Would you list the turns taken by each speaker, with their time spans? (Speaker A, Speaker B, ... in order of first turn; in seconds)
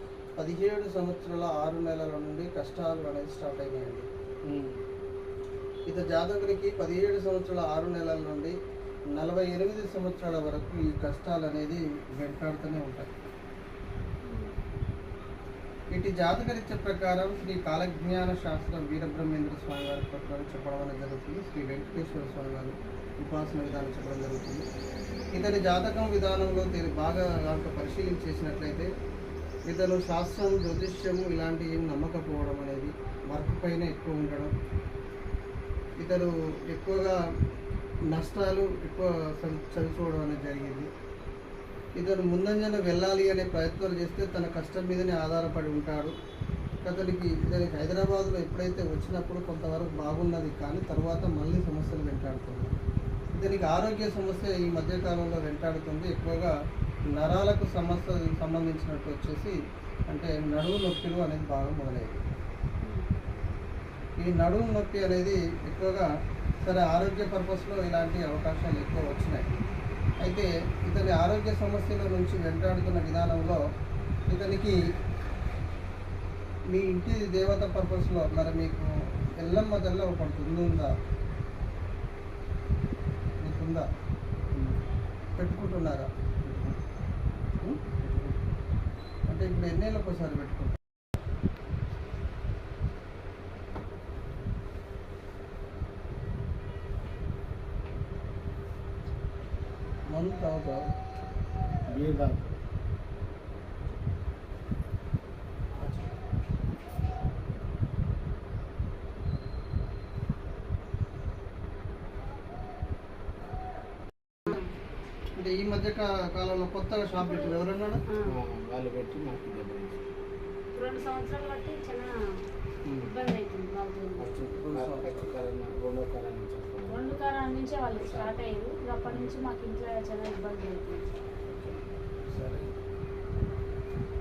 Speaker A: 0.4-4.1, 5.9-8.5, 9.1-13.3, 15.9-24.6, 25.3-28.9, 29.7-34.5, 36.0-37.1, 38.1-40.9, 42.0-46.1, 46.8-52.8, 53.3-56.5, 57.1-59.5, 60.1-62.1, 64.2-66.1, 66.6-69.5, 70.2-73.6, 74.3-74.8, 76.7-80.9, 83.4-83.8, 85.3-86.1, 89.3-90.8, 100.1-100.8, 105.8-106.1, 115.4-118.0, 124.5-125.2, 132.3-132.7
Speaker B: 4.4-4.8, 86.4-86.8, 88.0-88.3, 101.9-102.5, 118.2-120.0, 124.2-127.0, 128.0-128.3, 129.0-129.3
Speaker C: 14.2-14.6, 62.8-63.1, 117.2-118.3, 120.7-122.1, 123.0-124.2, 126.9-131.1